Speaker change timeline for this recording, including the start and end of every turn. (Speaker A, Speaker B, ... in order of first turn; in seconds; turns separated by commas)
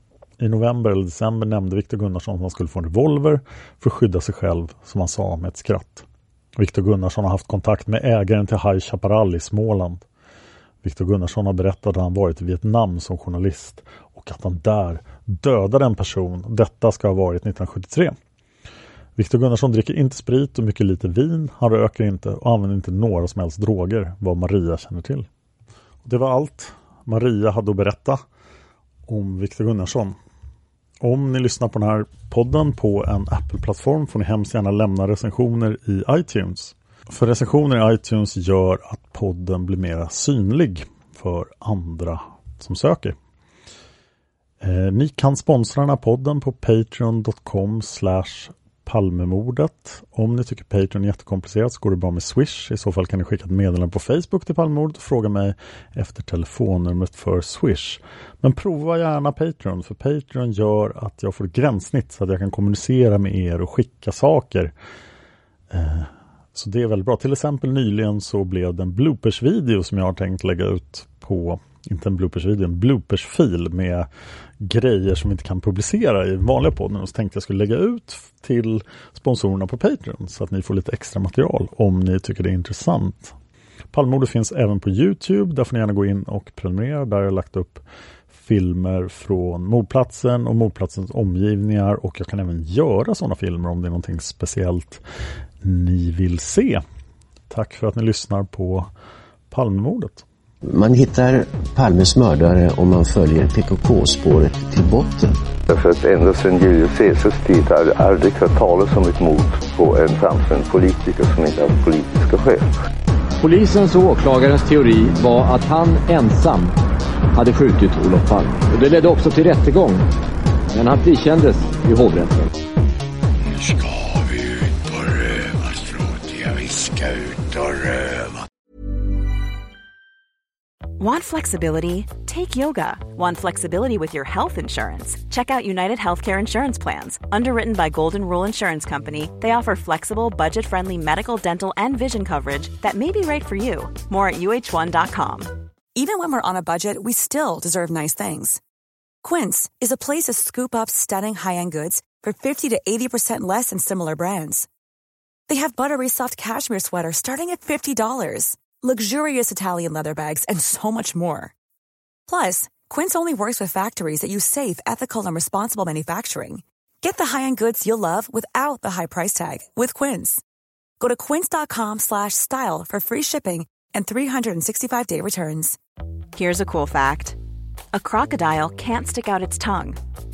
Speaker A: 0.4-10.0, Speaker A: 10.8-18.1, Speaker A: 19.1-25.3, Speaker A: 26.0-28.2, Speaker A: 29.1-30.2, Speaker A: 31.0-43.1, Speaker A: 44.6-64.7, Speaker A: 65.7-74.1, Speaker A: 74.6-83.3, Speaker A: 83.9-95.0, Speaker A: 95.6-96.8, Speaker A: 97.5-98.9, Speaker A: 99.5-100.2, Speaker B: 100.7-105.3, Speaker C: 105.7-112.7, Speaker D: 113.4-116.7, Speaker D: 117.3-120.0, Speaker D: 120.7-122.5, Speaker C: 123.5-128.4, Speaker E: 131.0-145.5, Speaker F: 145.9-148.6, Speaker F: 149.2-154.7, Speaker F: 155.5-161.5, Speaker F: 162.3-170.4, Speaker F: 171.0-175.8, Speaker E: 176.3-177.4, Speaker E: 177.9-180.0